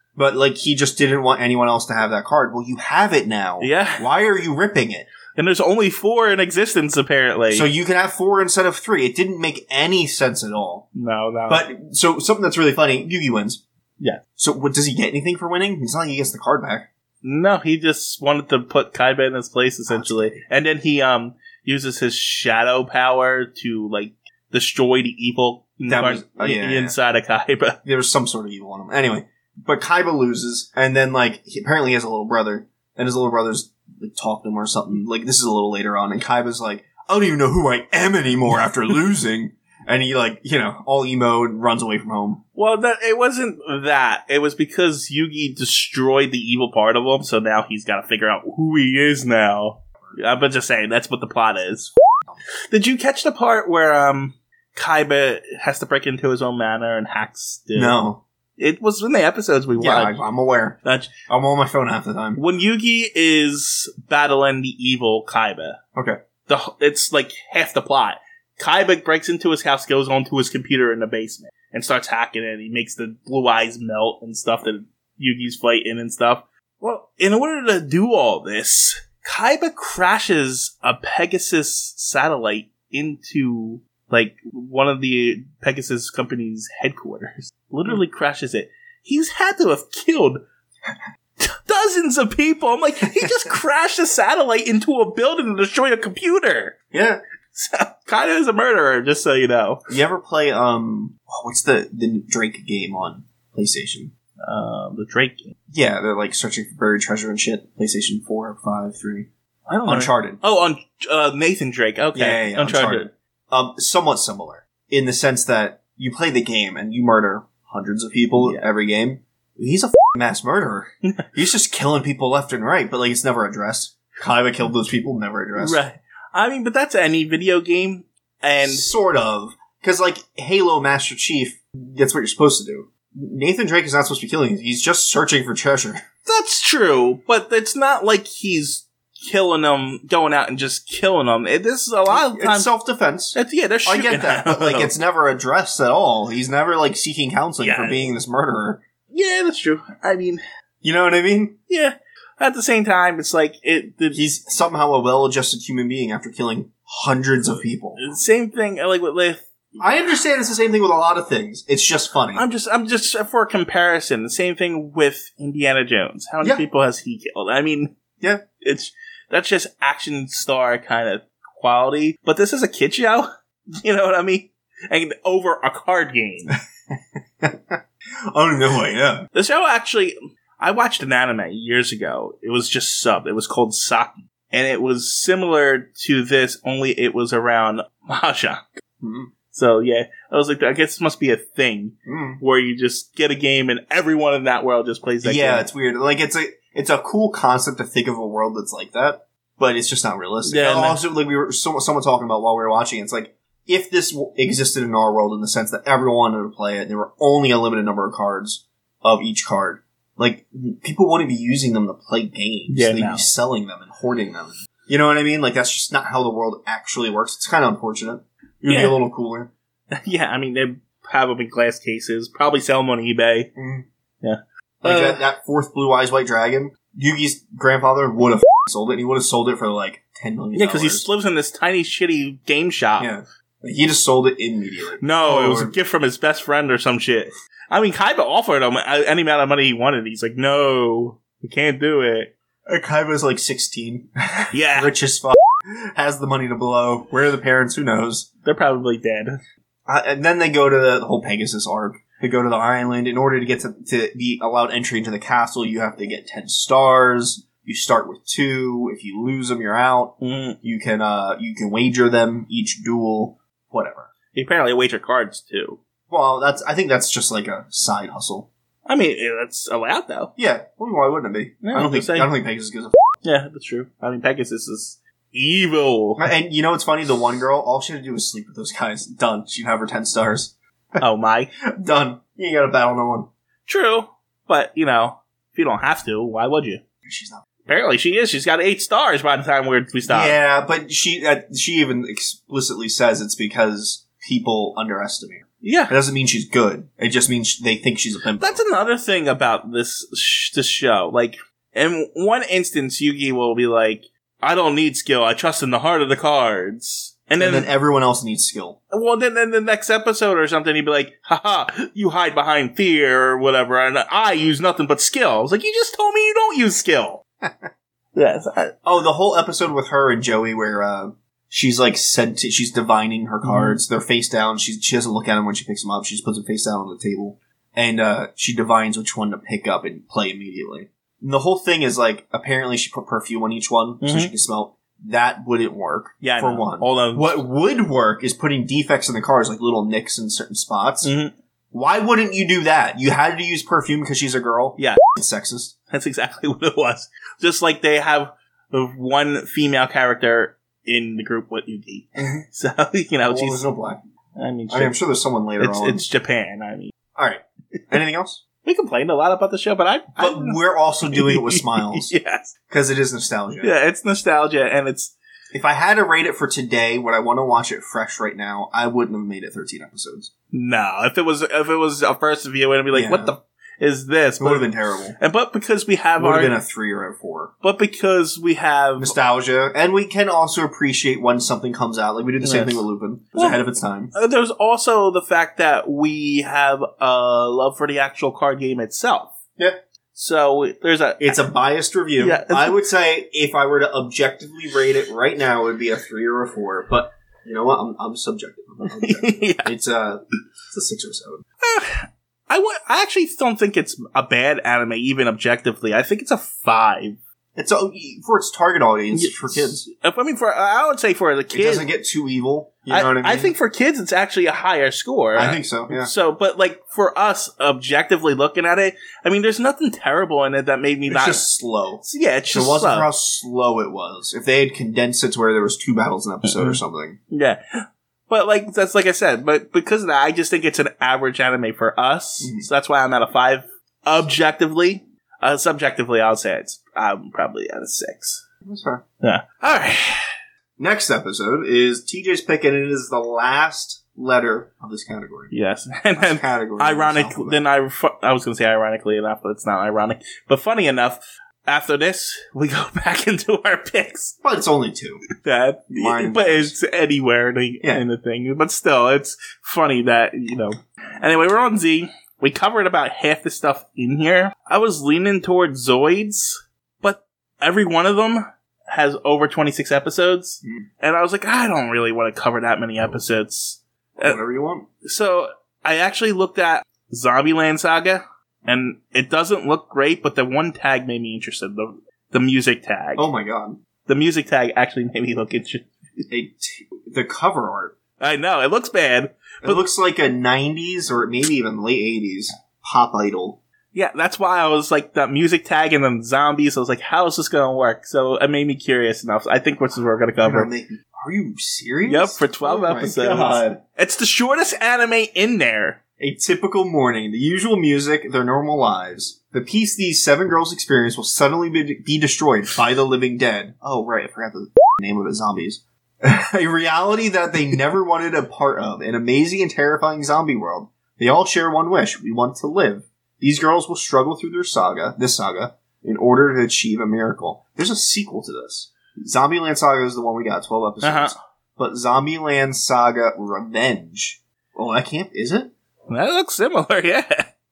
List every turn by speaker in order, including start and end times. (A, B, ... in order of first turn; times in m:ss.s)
0:00.2-0:05.1 A
0:03.6-0:04.1 B
0:05.3-0:07.7 B
0:07.5-0:10.8 A
0:10.9-0:11.6 B
0:11.5-0:13.6 A
0:14.4-0:16.9 A
0:17.2-0:27.8 B
0:19.9-0:20.4 A
0:25.9-0:26.9 A
0:27.8-0:42.4 A
0:42.5-0:51.9 B
0:52.7-0:58.0 B
0:57.7-0:58.2 A
0:58.6-1:00.2 B
0:59.8-1:00.8 A
1:00.8-1:01.1 B
1:01.3-1:02.4 A
1:02.4-1:05.8 B
1:06.5-1:30.4 B
1:31.4-1:36.8 B
1:33.1-1:33.5 A
1:36.9-1:37.2 A
1:37.5-1:39.9 B
1:39.9-1:44.1 A
1:44.4-1:45.6 B
1:45.7-1:49.3 A
1:49.7-1:53.1 B
1:49.8-1:50.4 A
1:52.1-2:05.8 A
1:58.4-1:58.6 B
2:05.6-2:08.9 B
2:08.6-2:16.0 A
2:16.2-2:22.7 B
2:22.1-2:28.8 A
2:23.3-2:24.9 B
2:27.6-2:28.1 B
2:29.1-2:30.4 B
2:30.8-2:31.6 A
2:31.7-2:34.2 B
2:34.1-2:38.0 A
2:38.0-2:39.8 B
2:39.8-2:42.4 A
2:42.3-2:48.0 B
2:48.6-2:53.3 B
2:53.8-2:56.6 B
2:56.9-2:57.8 A
2:58.3-2:59.3 A
2:59.3-3:08.8 B
3:09.0-3:09.3 A
3:09.5-3:15.7 B
3:12.0-3:12.4 A
3:15.2-3:39.5 A
3:20.4-3:21.0 B
3:32.7-3:33.3 B
3:38.7-3:39.0 B
3:39.9-3:43.5 B
3:43.6-3:43.8 A
3:44.2-3:45.2 B
3:44.8-3:51.1 A
3:50.5-3:53.1 B
3:53.0-3:55.7 A
3:55.0-4:02.3 B
4:02.7-4:08.3 A
4:04.5-4:04.9 B
4:08.4-4:09.4 B
4:09.9-4:24.1 A
4:20.2-4:20.6 B
4:24.3-4:25.8 B
4:26.1-4:28.5 A
4:28.8-4:30.3 B
4:30.4-4:33.0 A
4:31.6-4:32.3 B
4:33.2-4:36.2 B
4:36.2-4:41.0 A
4:41.0-4:41.5 B
4:41.7-4:43.3 A
4:43.7-4:46.8 B
4:47.0-4:47.4 A
4:47.6-4:50.4 B
4:50.1-4:58.6 A
4:55.6-4:55.9 B
4:58.4-5:07.7 B
5:07.4-5:08.8 A
5:08.9-5:17.2 B
5:17.4-5:17.7 A
5:18.1-5:18.7 B
5:18.8-5:41.1 A
5:23.4-5:23.8 B
5:34.0-5:34.3 B
5:36.2-5:37.4 B
5:41.0-5:41.3 B
5:41.7-5:45.7 A
5:45.9-5:53.6 B
5:53.3-5:54.0 A
5:54.4-5:55.0 B
5:54.7-5:56.0 A
5:55.6-5:56.9 B
5:57.1-5:58.4 A
5:58.6-6:02.5 B
6:00.2-6:02.1 A
6:02.7-6:03.7 A
6:03.6-6:05.1 B
6:05.5-6:10.3 A
6:10.5-6:16.6 B
6:12.9-6:13.3 A
6:14.4-6:15.2 A
6:16.2-6:17.5 A
6:17.6-6:19.2 B
6:19.0-6:24.1 A
6:22.4-6:22.8 B
6:23.3-6:29.4 B
6:30.1-6:31.4 B
6:31.2-6:41.4 A
6:32.2-6:32.9 B
6:38.8-6:39.7 B
6:41.6-6:47.2 B
6:47.6-6:49.8 A
6:49.1-6:51.9 B
6:51.5-6:53.5 A
6:52.9-7:01.4 B
6:55.4-6:56.1 A
7:01.1-7:07.2 A
7:02.0-7:03.1 B
7:06.4-7:06.8 B
7:07.3-7:18.4 B
7:12.4-7:12.7 A
7:18.6-7:19.0 A
7:19.2-7:20.3 B
7:20.8-7:25.5 A
7:25.5-7:34.4 B
7:26.2-7:27.6 A
7:34.4-7:35.2 A
7:35.3-7:54.4 B
7:35.9-7:36.7 A
7:54.2-7:54.9 A
7:55.0-8:03.3 B
8:03.2-8:03.8 A
8:04.0-8:06.2 B
8:06.3-8:08.0 A
8:08.2-8:09.8 B
8:09.6-8:13.6 A
8:13.9-8:20.7 B
8:20.4-8:23.8 A
8:22.1-8:26.0 B
8:26.2-8:55.7 A
8:51.0-8:51.4 B
8:56.1-8:57.5 B